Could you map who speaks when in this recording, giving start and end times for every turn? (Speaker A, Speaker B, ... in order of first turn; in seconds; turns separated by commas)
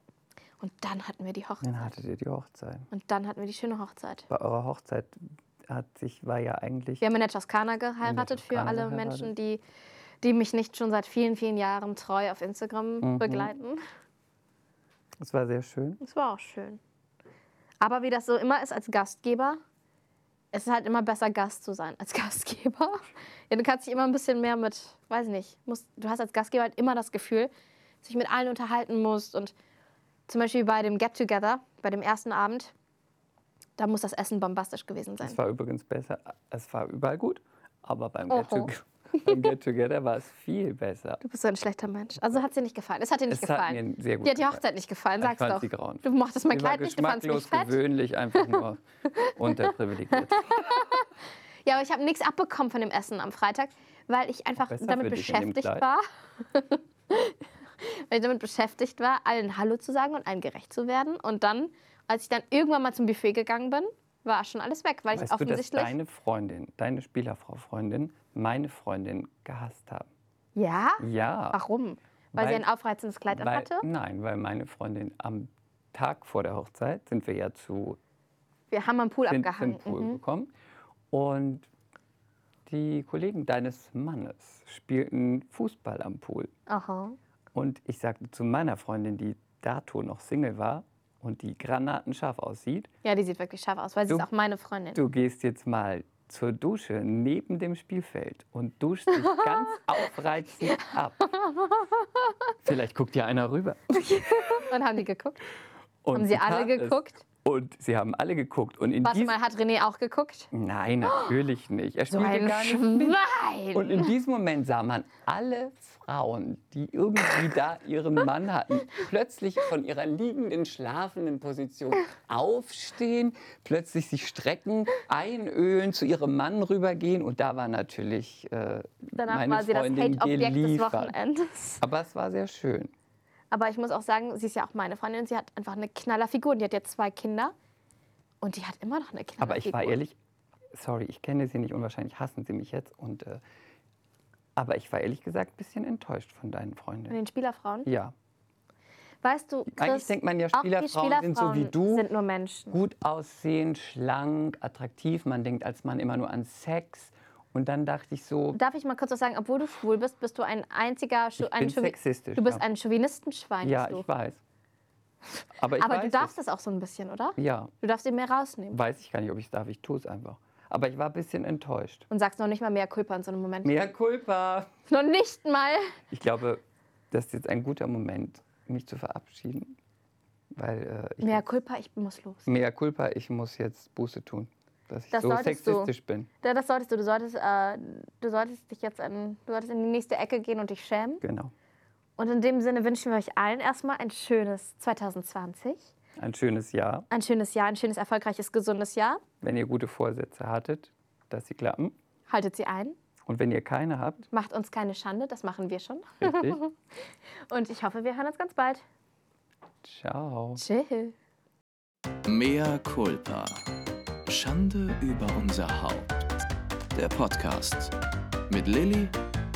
Speaker A: 0.6-1.9, Speaker B: 1.6-2.9, Speaker A: 2.9-4.2, Speaker B: 4.3-7.0, Speaker A: 7.0-9.6, Speaker B: 8.0-9.3, Speaker A: 10.2-13.8, Speaker B: 13.0-13.5, Speaker B: 15.2-16.0, Speaker A: 16.0-16.8, Speaker A: 17.8-19.6, Speaker A: 20.5-27.5, Speaker A: 28.0-29.5, Speaker A: 30.3-32.7, Speaker A: 33.8-35.4, Speaker B: 35.2-41.2, Speaker A: 38.3-39.4, Speaker A: 41.2-47.8, Speaker B: 43.3-44.6, Speaker B: 45.2-50.9, Speaker A: 50.1-51.1, Speaker A: 51.6-65.9, Speaker B: 54.6-55.9, Speaker B: 65.1-70.1, Speaker A: 70.5-73.8, Speaker B: 71.0-71.6, Speaker B: 72.3-72.6, Speaker B: 73.3-78.0, Speaker A: 78.7-80.2, Speaker B: 79.2-80.5, Speaker B: 81.1-81.7, Speaker B: 82.7-86.5, Speaker A: 86.7-87.2, Speaker B: 87.5-92.9, Speaker A: 93.0-95.0, Speaker B: 94.9-101.2, Speaker A: 99.2-99.8, Speaker A: 100.7-102.5, Speaker B: 102.6-104.7, Speaker A: 103.9-105.4, Speaker B: 106.0-109.4, Speaker A: 106.1-107.2, Speaker A: 109.0-110.5, Speaker B: 110.5-113.2, Speaker A: 111.0-111.3, Speaker A: 112.1-114.1, Speaker B: 113.7-131.1, Speaker A: 129.2-131.8, Speaker B: 131.8-132.9, Speaker A: 133.5-137.5, Speaker A: 138.4-140.0, Speaker B: 139.4-140.2, Speaker B: 140.7-143.4, Speaker B: 144.6-147.2, Speaker A: 147.1-147.9, Speaker B: 147.8-148.1, Speaker A: 149.2-152.8, Speaker B: 149.7-152.1, Speaker B: 152.7-158.6, Speaker A: 158.5-164.1, Speaker B: 161.4-162.6, Speaker B: 163.6-164.4, Speaker B: 165.6-166.3, Speaker A: 165.7-168.8, Speaker B: 167.4-167.7, Speaker B: 168.7-172.1, Speaker A: 172.1-173.8, Speaker B: 173.6-174.7, Speaker A: 174.9-175.9, Speaker B: 176.1-179.8, Speaker B: 180.5-181.4, Speaker A: 181.2-182.5, Speaker B: 182.4-186.3, Speaker A: 185.1-191.2, Speaker B: 191.2-191.5, Speaker A: 192.2-195.9, Speaker B: 196.2-197.1, Speaker A: 197.1-199.2, Speaker B: 199.4-201.9, Speaker A: 202.3-203.0, Speaker B: 203.2-204.2, Speaker A: 204.3-206.8, Speaker B: 206.2-206.6, Speaker A: 207.5-208.8, Speaker B: 209.8-210.6, Speaker A: 210.6-211.1, Speaker C: 212.2-213.7, Speaker C: 214.2-216.3, Speaker C: 216.9-217.9, Speaker C: 218.5-219.2